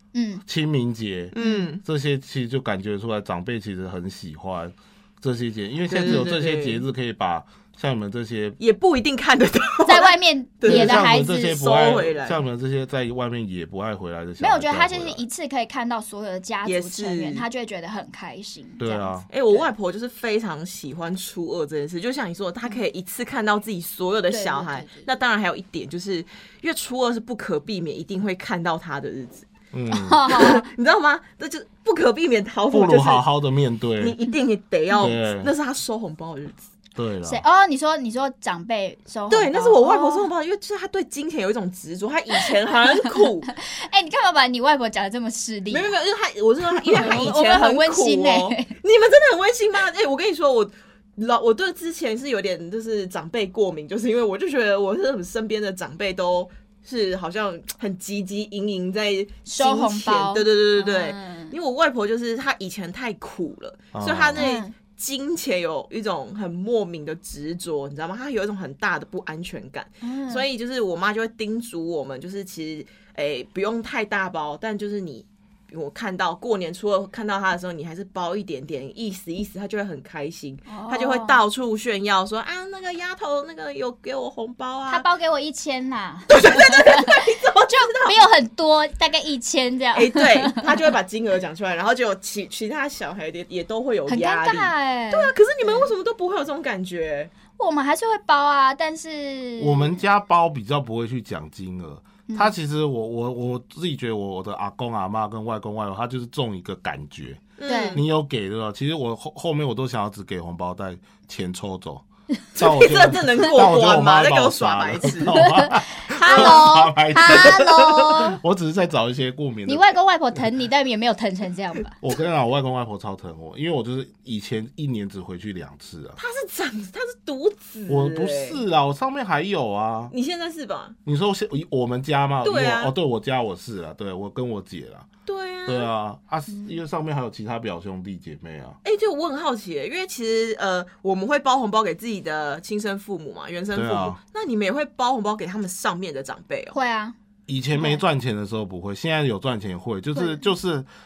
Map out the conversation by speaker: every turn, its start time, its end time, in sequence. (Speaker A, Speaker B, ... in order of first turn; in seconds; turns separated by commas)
Speaker A: 0.1-0.4, Speaker B: 0.5-8.6, Speaker C: 1.3-1.8, Speaker A: 1.4-1.7, Speaker C: 5.9-6.8, Speaker C: 8.6-12.4, Speaker A: 9.8-11.6, Speaker B: 10.7-15.2, Speaker A: 14.4-19.6, Speaker C: 16.6-17.4, Speaker B: 18.8-19.2, Speaker C: 19.3-29.5, Speaker A: 24.3-25.1, Speaker B: 29.7-30.3, Speaker A: 29.9-30.7, Speaker C: 30.3-33.2, Speaker B: 32.7-34.2, Speaker C: 34.0-36.7, Speaker B: 35.0-35.5, Speaker B: 36.9-37.4, Speaker A: 37.2-40.3, Speaker C: 39.3-43.5, Speaker A: 43.5-45.9, Speaker C: 45.7-85.0, Speaker A: 46.8-48.7, Speaker A: 59.5-61.5, Speaker B: 63.9-64.4, Speaker A: 64.4-64.7, Speaker A: 70.0-70.5, Speaker A: 80.7-81.4, Speaker A: 84.9-90.7, Speaker C: 86.3-88.3, Speaker C: 89.9-97.3, Speaker A: 94.1-95.9, Speaker A: 97.6-100.0, Speaker B: 99.6-119.9, Speaker A: 102.3-102.5, Speaker C: 107.6-108.0, Speaker A: 107.7-108.0, Speaker C: 112.6-115.4, Speaker A: 115.3-118.4, Speaker C: 116.2-116.5, Speaker A: 119.7-122.0, Speaker B: 122.0-126.2, Speaker C: 126.2-128.6, Speaker B: 127.9-130.1, Speaker C: 130.1-130.9, Speaker B: 131.0-135.1, Speaker C: 132.4-132.9, Speaker C: 135.2-135.9, Speaker B: 135.7-138.8, Speaker C: 138.8-146.8, Speaker B: 143.7-144.2, Speaker A: 146.7-147.2, Speaker B: 147.5-150.8, Speaker A: 147.7-148.0, Speaker A: 150.1-150.4